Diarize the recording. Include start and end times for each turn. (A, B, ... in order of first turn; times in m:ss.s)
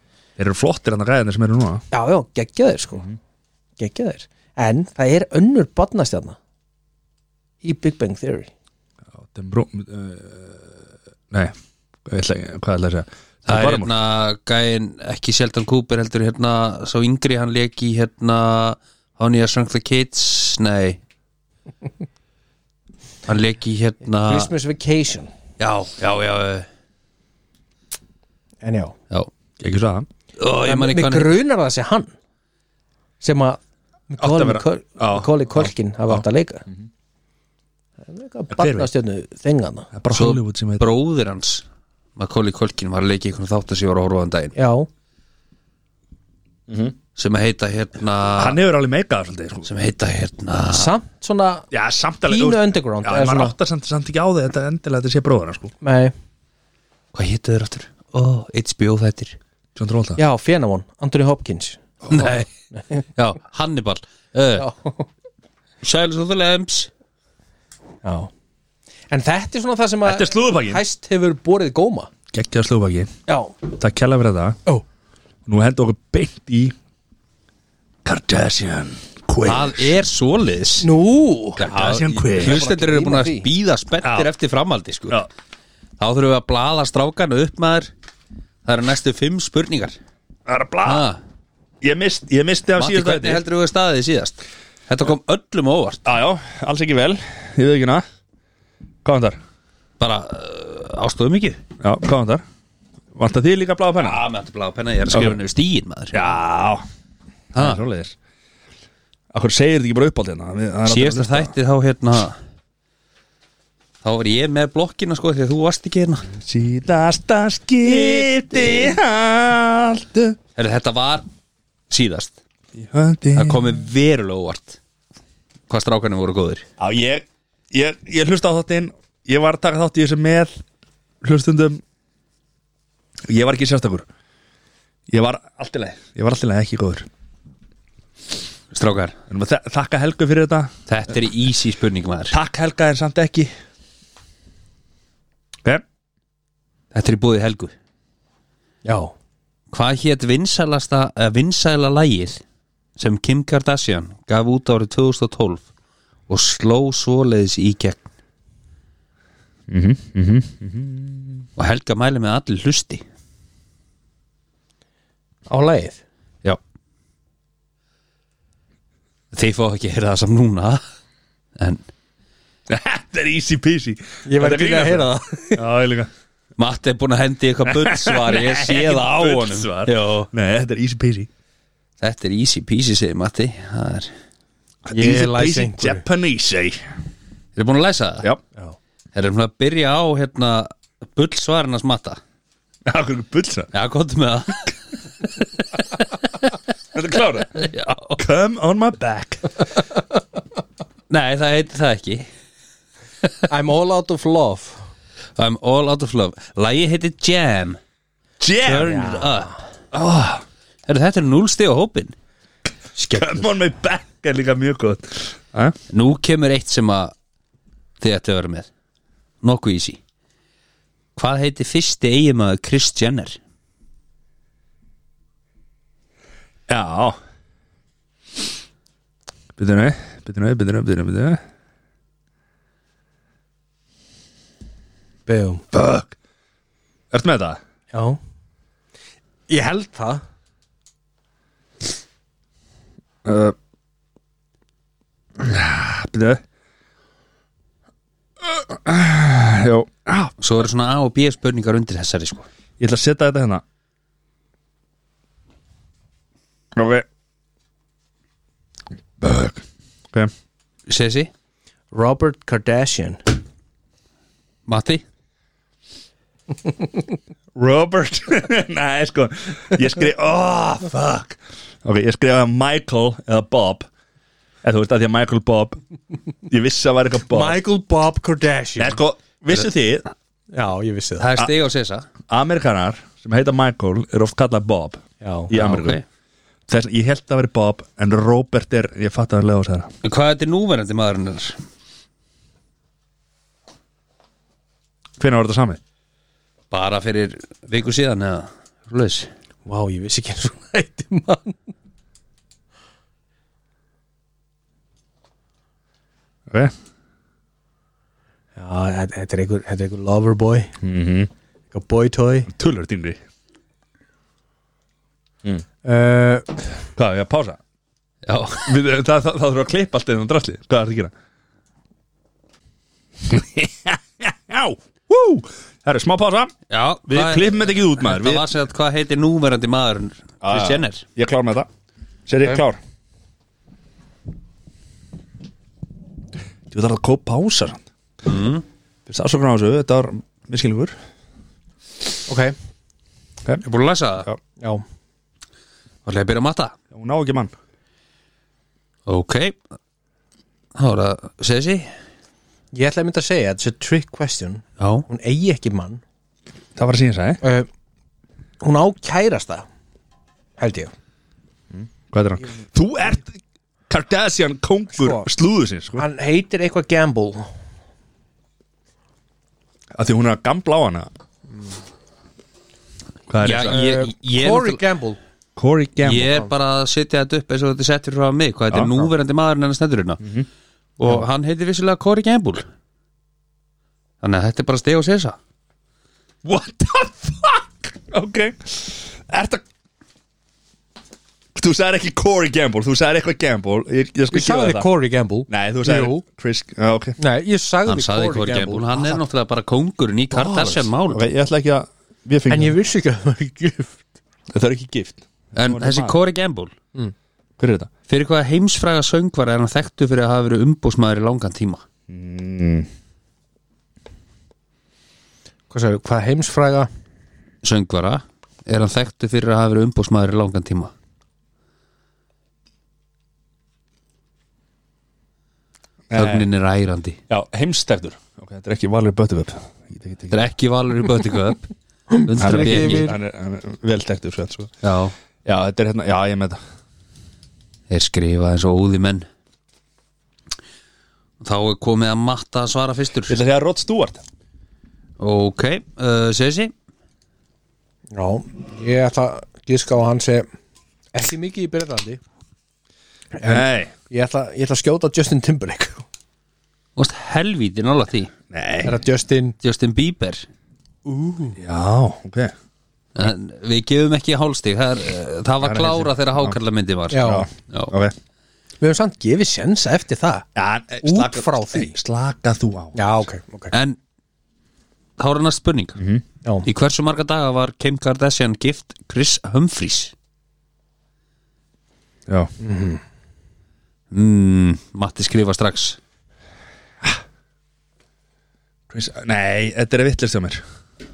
0:00.4-0:01.8 A
0:01.9-0:03.1 B
0:03.8-0:06.4 B
0:07.6-0:08.5 B
0:09.2-0:10.7 A
0:12.0-0:13.9 A
0:13.4-0:21.0 C
0:23.2-0:24.5 C
0:24.1-0:25.3 B
0:25.6-0:26.7 C
0:28.6-0:29.0 B
0:29.6-0:30.1 A
0:30.4-0:31.3 C
0:30.6-0:32.1 B
0:33.2-0:36.6 B
0:34.2-0:36.2 A
0:38.1-0:39.9 B
0:38.5-0:38.9 A
0:39.9-0:40.9 A
0:40.1-0:41.6 C
0:42.2-0:44.5 C
0:44.5-0:44.9 B
0:46.7-0:46.9 A
0:47.2-0:48.6 C
0:48.4-0:49.7 A
0:49.6-0:50.9 C
0:50.7-0:51.7 B
0:51.7-0:55.7 A
0:52.3-0:53.5 B
0:55.8-0:56.1 B
0:57.1-0:59.4 C
0:59.7-1:00.2 A
1:00.2-1:03.0 B
1:02.1-1:02.4 A
1:02.1-1:02.4 C
1:03.1-1:04.7 C
1:04.6-1:05.1 B
1:05.8-1:06.9 C
1:08.0-1:08.3 B
1:09.1-1:12.1 B
1:10.0-1:10.8 A
1:12.3-1:13.1 A
1:13.3-1:13.6 B
1:13.7-1:14.6 A
1:15.5-1:16.7 A
1:18.0-1:20.0 A
1:19.4-1:20.9 C
1:20.8-1:23.5 B
1:21.6-1:25.2 C
1:21.7-1:22.6 A
1:24.0-1:24.3 A
1:26.0-1:27.9 C
1:28.6-1:30.0 C
1:30.4-1:31.1 A
1:30.8-1:31.2 C
1:31.8-1:33.4 A
1:32.8-1:36.0 C
1:36.0-1:38.0 A
1:39.0-1:39.4 A
1:40.0-1:41.6 C
1:41.8-1:42.4 A
1:43.1-1:44.2 A
1:44.0-1:46.2 C
1:45.1-1:45.4 A
1:46.1-1:46.8 A
1:47.5-1:47.8 C
1:47.6-1:48.2 A
1:49.3-1:51.5 A
1:50.8-1:52.4 C
1:54.0-1:56.3 C
1:56.3-2:00.4 A
1:58.0-1:58.9 C
2:00.6-2:01.2 C
2:01.9-2:02.3 C
2:02.7-2:03.8 A
2:03.3-2:04.8 C
2:05.7-2:06.6 C
2:06.8-2:10.5 A
2:11.2-2:11.8 A
2:13.3-2:14.1 A
2:15.1-2:17.1 A
2:18.7-2:19.2 C
2:19.3-2:20.7 A
2:20.9-2:22.4 C
2:22.3-2:23.5 A
2:26.9-2:27.7 C
2:28.8-2:29.1 B
2:29.7-2:32.4 C
2:33.0-2:35.6 C
2:36.3-2:38.1 C
2:39.7-2:41.4 A
2:41.6-2:43.0 C
2:45.5-2:46.0 B
2:49.3-2:50.8 C
2:51.6-2:51.8 C
2:52.7-2:56.1 A
2:54.2-2:55.6 B
2:56.6-3:00.3 C
2:57.7-3:01.3 A
3:02.0-3:04.1 C
3:04.8-3:06.8 A
3:04.9-3:06.0 B
3:07.6-3:08.3 C
3:09.1-3:12.2 C
3:12.8-3:13.7 A
3:13.7-3:16.4 C
3:16.9-3:19.6 A
3:17.6-3:18.2 C
3:21.1-3:22.2 C
3:23.5-3:24.8 B
3:25.4-3:27.8 C
3:28.4-3:29.2 A
3:28.6-3:29.5 C
3:28.9-3:29.4 B
3:29.9-3:30.4 A
3:30.9-3:32.1 C
3:33.0-3:33.4 B
3:33.1-3:35.8 A
3:35.9-3:37.1 C
3:38.0-3:38.7 C
3:39.4-3:40.0 C
3:41.2-3:43.4 C
3:46.7-3:47.2 A
3:49.6-3:51.4 A
3:55.3-3:55.6 B
3:55.7-3:56.2 A
3:57.1-3:57.6 A
3:57.9-3:58.2 B
3:59.5-4:00.2 B
4:03.2-4:03.5 A
4:05.4-4:06.4 A
4:08.4-4:10.4 A
4:10.4-4:12.5 C
4:12.8-4:13.6 A
4:16.7-4:17.0 A
4:19.2-4:20.3 A
4:20.9-4:21.3 C
4:21.9-4:23.2 B
4:24.6-4:25.0 C
4:27.5-4:33.9 A
4:34.6-4:35.8 A
4:36.5-4:37.6 A
4:37.3-4:39.0 B
4:38.8-4:40.0 A
4:40.5-4:41.3 B
4:41.2-4:42.1 C
4:42.3-4:46.0 A
4:45.2-4:45.5 B
4:45.5-4:46.0 C
4:46.7-4:49.9 A
4:50.0-4:51.6 C
4:55.2-4:55.8 A
4:56.7-4:59.3 C
4:59.6-5:01.6 B
5:06.5-5:06.7 A
5:08.6-5:10.7 B
5:10.8-5:11.3 A
5:11.7-5:12.5 B
5:12.5-5:13.2 A
5:15.8-5:16.7 B
5:17.0-5:17.6 A
5:18.2-5:18.7 C
5:18.6-5:21.1 A
5:23.2-5:26.5 A
5:26.7-5:31.0 C
5:27.1-5:28.4 A
5:30.4-5:31.7 A
5:32.3-5:32.8 A
5:36.7-5:37.8 A
5:38.2-5:38.6 C
5:39.1-5:40.9 A
5:42.3-5:42.5 B
5:43.6-5:44.3 C
5:46.0-5:46.8 C
5:46.9-5:47.5 A
5:49.0-5:49.6 C
5:50.7-5:51.9 C
5:52.7-5:56.0 B
5:54.8-5:55.0 C
5:56.8-5:57.4 A
5:57.4-5:57.7 B
5:58.6-5:59.6 B
6:00.6-6:00.9 B
6:01.7-6:03.4 A
6:03.9-6:06.0 A
6:04.9-6:05.3 B
6:06.0-6:07.5 B
6:09.9-6:11.1 A
6:13.3-6:13.9 A
6:13.4-6:14.8 C
6:13.6-6:15.2 B
6:15.6-6:16.4 A
6:16.0-6:20.2 C
6:18.7-6:19.0 A
6:20.2-6:20.5 A
6:21.0-6:22.6 C
6:24.2-6:25.4 C
6:26.4-6:29.6 A
6:31.5-6:34.9 A
6:34.3-6:36.2 B
6:35.5-6:37.2 A
6:37.2-6:38.9 B
6:37.9-6:41.2 C
6:38.9-6:39.2 A
6:40.3-6:42.7 A
6:42.5-6:44.0 B
6:44.5-6:46.1 A
6:45.6-6:46.7 C
6:47.6-6:47.9 A
6:48.1-6:51.8 C
6:52.1-6:52.9 A
6:55.7-6:56.9 B
6:57.6-7:00.9 C
7:06.1-7:06.4 A
7:06.1-7:07.2 C
7:07.3-7:10.4 A
7:10.3-7:11.7 C
7:12.1-7:13.1 B
7:12.2-7:13.1 C
7:12.4-7:14.7 A
7:14.8-7:15.1 C
7:15.4-7:16.6 A
7:17.9-7:19.3 C
7:21.4-7:23.4 C
7:23.3-7:24.2 A
7:25.2-7:26.7 C
7:28.1-7:30.5 B
7:31.1-7:32.2 B
7:33.3-7:36.0 B
7:33.4-7:33.9 A
7:37.0-7:38.3 C
7:38.5-7:38.9 A
7:38.8-7:39.5 B
7:39.6-7:40.4 C
7:41.0-7:41.6 B
7:41.6-7:42.5 A
7:43.1-7:47.9 C
7:45.6-7:46.6 A
7:47.1-7:47.5 B
7:47.2-7:48.1 A
7:48.8-7:50.5 B
7:50.6-7:53.1 A
7:51.0-7:52.0 B
7:53.0-7:53.7 B
7:53.7-7:54.0 C
7:55.2-7:56.0 C
7:56.0-7:56.2 A
7:56.6-8:00.1 C
8:02.6-8:03.0 B
8:04.1-8:06.0 C
8:08.9-8:10.6 A